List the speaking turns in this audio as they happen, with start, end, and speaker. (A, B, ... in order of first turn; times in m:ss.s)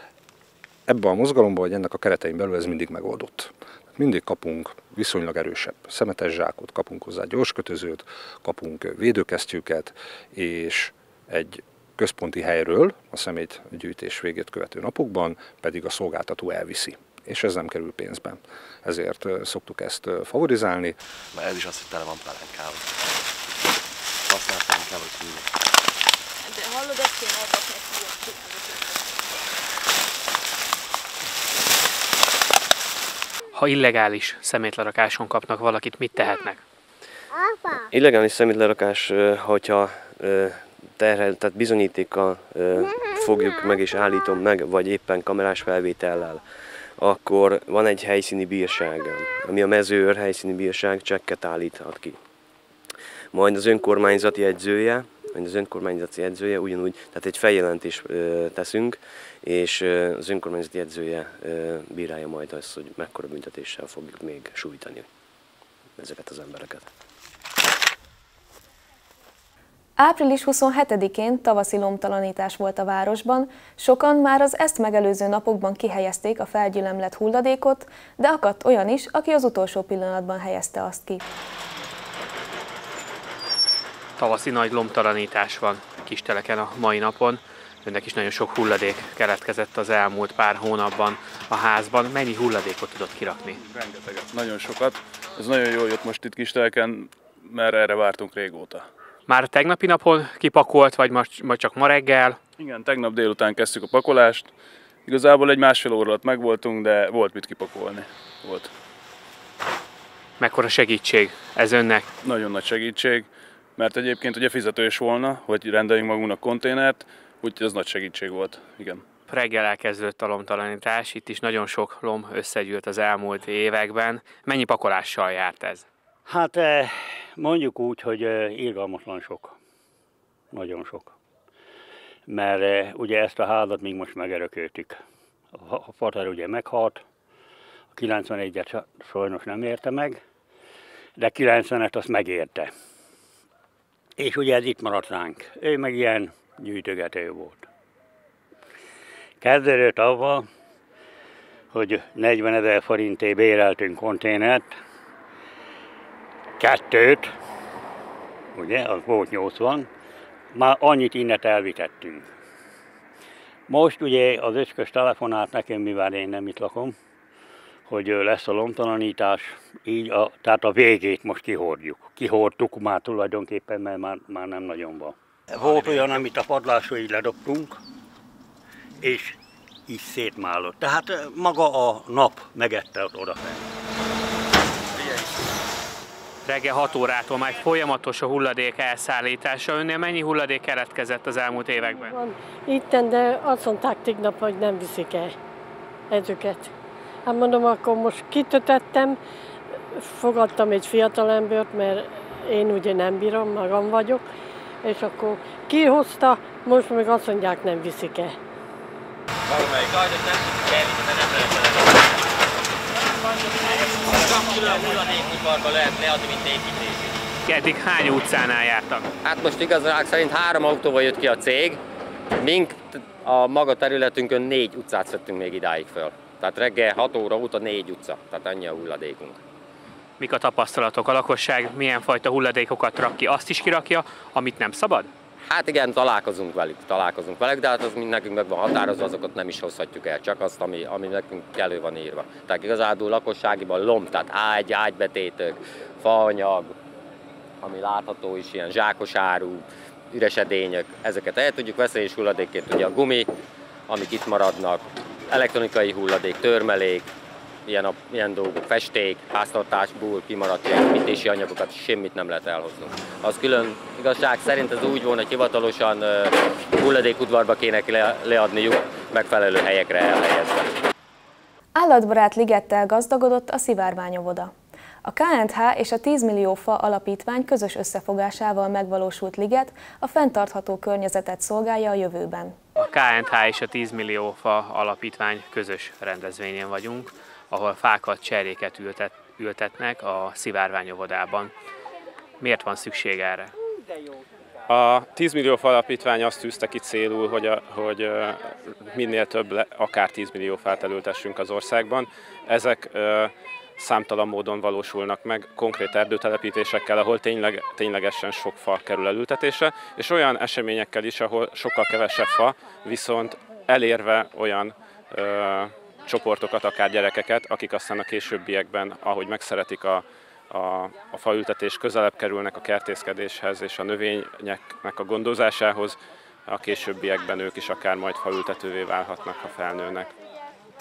0:00.9-0:21.0 A
0:21.3-0:22.8 B
0:24.3-0:25.4 B
0:33.5-0:36.6 C
0:37.9-0:52.2 D
0:53.3-1:05.1 D
1:06.0-1:06.9 D
1:10.0-1:21.2 E
1:24.2-1:33.6 C
1:33.6-1:38.9 F
1:39.3-1:42.4 C
1:42.6-1:44.5 F
1:45.0-1:48.7 F
1:50.4-1:52.1 C
1:52.2-1:59.0 F
1:59.3-2:05.8 C
2:06.3-2:09.5 G
2:10.5-2:11.1 G
2:12.3-2:15.0 G
2:15.5-2:17.0 G
2:17.9-2:20.2 G
2:21.2-2:22.7 G
2:24.2-2:27.6 G
2:29.4-2:30.5 G
2:31.7-2:34.8 G
2:36.6-2:37.3 G
2:38.5-2:39.9 G
2:40.5-2:42.3 G
2:43.7-2:47.0 G
2:47.9-2:57.8 G
2:59.0-2:59.3 G
2:59.9-3:03.6 G
3:06.4-3:12.2 C
3:12.0-3:15.3 H
3:16.1-3:16.7 H
3:17.2-3:19.2 H
3:20.1-3:24.2 H
3:24.8-3:28.4 H
3:29.5-3:31.9 I
3:33.6-3:37.1 I
3:37.4-3:39.0 C
3:39.2-3:41.8 I
3:42.4-3:49.4 I
3:50.2-3:55.1 C
3:55.5-4:06.7 I
4:07.6-4:13.3 I
4:13.9-4:17.1 I
4:17.7-4:30.7 I
4:31.8-4:34.5 E
4:35.0-4:42.6 E
4:42.8-4:51.5 C
4:52.4-4:53.5 C
4:54.7-5:30.1 J